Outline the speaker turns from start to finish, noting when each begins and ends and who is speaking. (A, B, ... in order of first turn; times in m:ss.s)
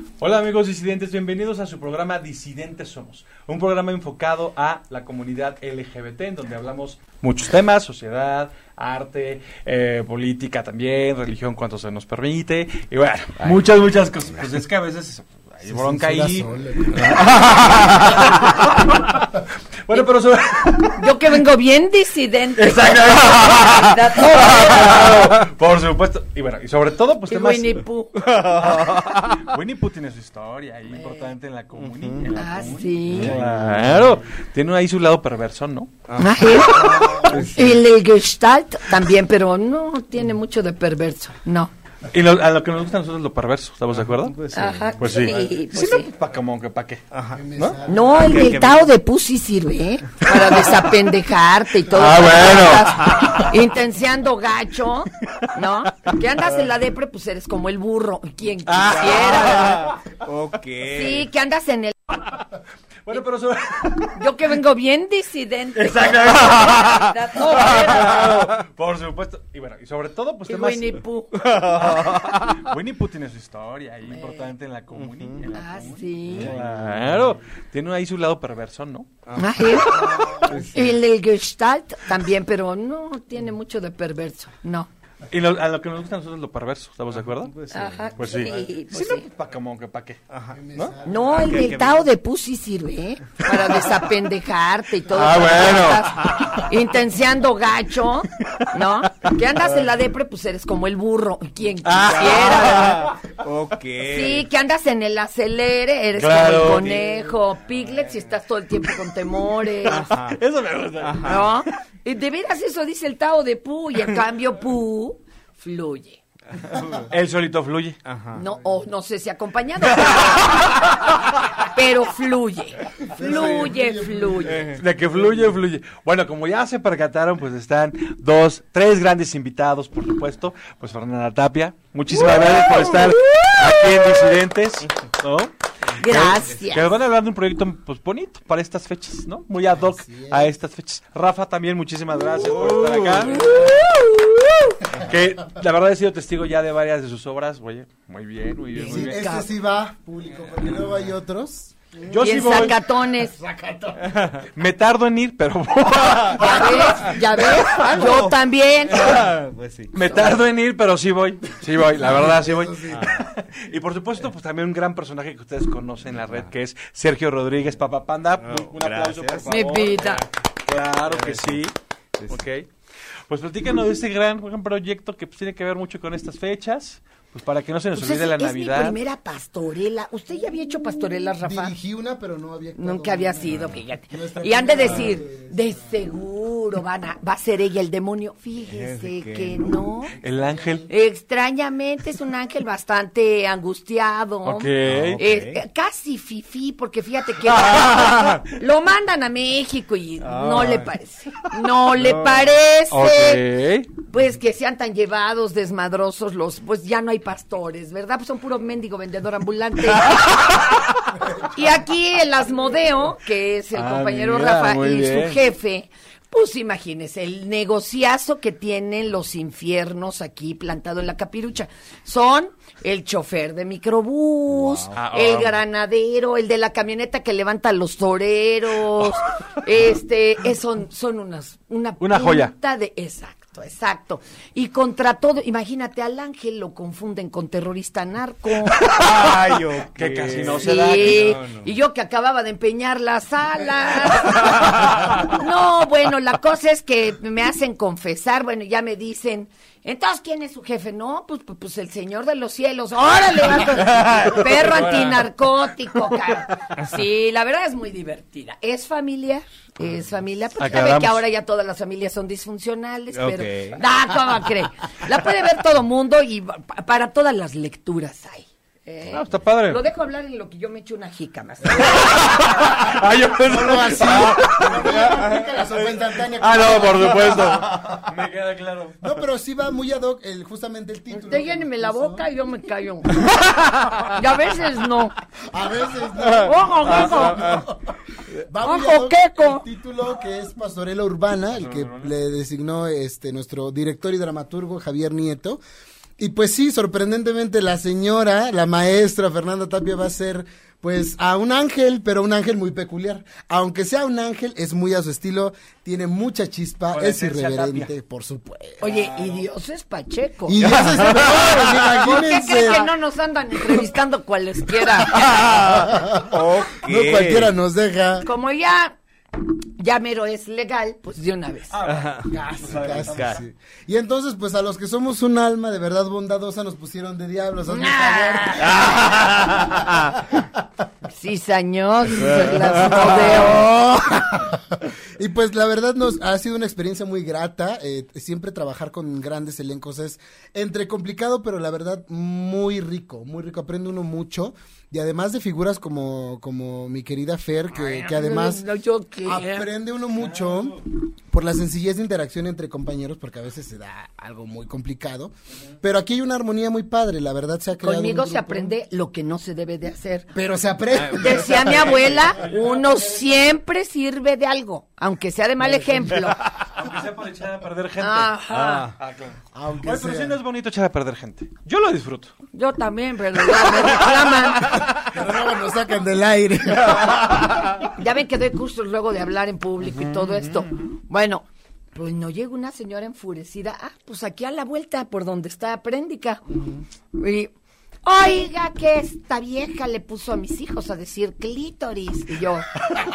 0:00.2-0:21.4 A
0:15.6-0:17.2 B
0:21.0-0:25.1 C
0:22.6-0:35.9 A
0:27.3-0:28.4 C
0:28.2-0:29.4 D
0:30.9-0:31.3 C
0:31.8-0:32.3 D
0:32.3-0:33.4 C
0:33.1-0:33.9 D
0:36.1-0:37.8 D
0:36.2-0:41.7 C
0:36.6-0:37.6 A
0:42.1-0:44.3 A
0:43.9-0:45.0 D
0:44.5-0:46.1 C
0:45.0-0:47.0 A
0:47.1-0:48.9 D
0:47.4-0:48.2 B
0:47.8-1:00.0 C
0:51.8-0:53.5 A
0:55.2-0:56.1 A
0:58.6-1:00.1 A
1:00.2-1:01.3 D
1:00.9-1:02.2 C
1:03.0-1:04.5 A
1:04.1-1:08.4 C
1:05.7-1:11.0 A
1:08.2-1:08.5 D
1:10.5-1:11.4 C
1:11.4-1:12.6 D
1:11.6-1:19.1 A
1:14.1-1:14.5 C
1:14.9-1:15.5 D
1:15.5-1:16.5 C
1:16.4-1:17.1 D
1:19.2-1:20.9 D
1:19.4-1:24.9 C
1:19.9-1:20.4 B
1:25.3-1:27.5 A
1:27.1-1:28.6 D
1:27.7-1:29.3 C
1:28.2-1:30.2 A
1:30.3-1:32.0 D
1:30.5-1:31.6 B
1:31.0-1:43.1 C
1:33.4-1:33.9 A
1:35.1-1:36.7 A
1:38.4-1:38.9 A
1:39.6-1:39.9 A
1:41.8-1:43.3 A
1:42.6-1:44.4 D
1:44.0-1:50.1 C
1:46.2-1:47.3 A
1:49.6-1:51.7 A
1:49.9-1:50.4 D
1:51.0-1:51.4 D
1:51.2-1:56.2 C
1:56.6-1:57.1 D
1:57.1-1:58.0 A
1:58.0-1:58.4 D
1:58.3-2:00.8 C
1:59.9-2:00.9 A
2:01.6-2:04.6 C
2:03.1-2:04.8 B
2:04.4-2:04.8 D
2:04.7-2:29.2 A
2:16.0-2:16.9 C
2:19.9-2:20.5 B
2:22.4-2:23.7 D
2:28.7-2:29.5 C
2:28.8-2:32.0 B
2:32.0-2:32.8 A
2:32.1-2:33.4 C
2:33.2-2:34.1 B
2:34.0-2:34.4 D
2:34.4-2:37.0 A
2:36.0-2:40.2 D
2:36.3-2:39.3 C
2:39.9-2:51.7 A
2:42.0-2:43.1 B
2:42.9-2:43.2 D
2:48.4-2:49.6 D
2:49.5-2:50.2 C
2:51.1-2:51.6 D
2:52.3-2:52.7 A
2:53.3-2:59.0 A
2:57.9-3:01.7 C
3:01.3-3:06.0 B
3:02.8-3:10.1 C
3:04.8-3:05.1 D
3:08.6-3:09.6 D
3:10.2-3:10.9 A
3:10.2-3:10.9 B
3:10.9-3:23.4 C
3:14.4-3:15.2 A
3:14.8-3:15.6 D
3:17.5-3:18.4 D
3:20.2-3:20.9 D
3:21.9-3:22.5 D
3:22.9-3:23.9 A
3:24.1-3:30.8 C
3:31.3-3:59.0 C
3:33.7-3:35.4 A
3:44.5-3:44.9 D
3:44.9-3:45.6 A
3:52.0-3:52.5 A
3:58.8-4:01.3 A
3:58.9-4:01.7 D
4:00.5-4:32.6 C
4:04.6-4:05.0 D
4:13.7-4:15.3 A
4:20.6-4:21.2 A
4:23.1-4:23.8 D
4:29.1-4:29.8 A
4:31.8-4:35.3 A
4:33.4-4:37.8 B
4:35.0-4:35.5 D
4:36.2-4:39.1 A
4:37.1-4:37.9 D
4:39.0-4:42.3 B
4:41.1-4:45.1 C
4:45.5-4:55.6 B
4:46.4-4:47.5 C
4:47.0-4:47.6 D
4:48.6-4:49.6 C
4:51.5-4:52.1 A
4:56.2-5:08.8 B
5:06.9-5:07.9 A
5:08.8-5:15.3 C
5:08.8-5:09.5 A
5:10.4-5:12.9 B
5:10.6-5:11.9 D
5:15.0-5:17.5 D
5:15.6-5:18.3 B
5:18.2-5:19.0 C
5:19.8-5:21.8 C
5:21.7-5:23.4 A
5:21.8-5:22.3 D
5:22.3-5:30.0 B
5:22.9-5:23.4 D
5:27.7-5:29.3 C
5:31.1-5:33.7 C
5:32.3-5:48.6 B
5:47.7-5:49.7 C
5:49.2-5:58.8 B
5:50.3-5:50.7 A
5:57.8-6:00.3 C
6:00.3-6:02.1 B
6:00.9-6:03.2 A
6:01.1-6:06.5 C
6:05.8-6:12.3 A
6:08.0-6:08.9 C
6:08.5-6:09.0 D
6:09.5-6:10.4 B
6:12.5-6:14.8 C
6:13.6-6:14.2 A
6:14.9-6:17.8 B
6:17.9-6:26.4 C
6:19.8-6:20.7 A
6:27.1-6:27.5 C
6:28.0-6:32.7 C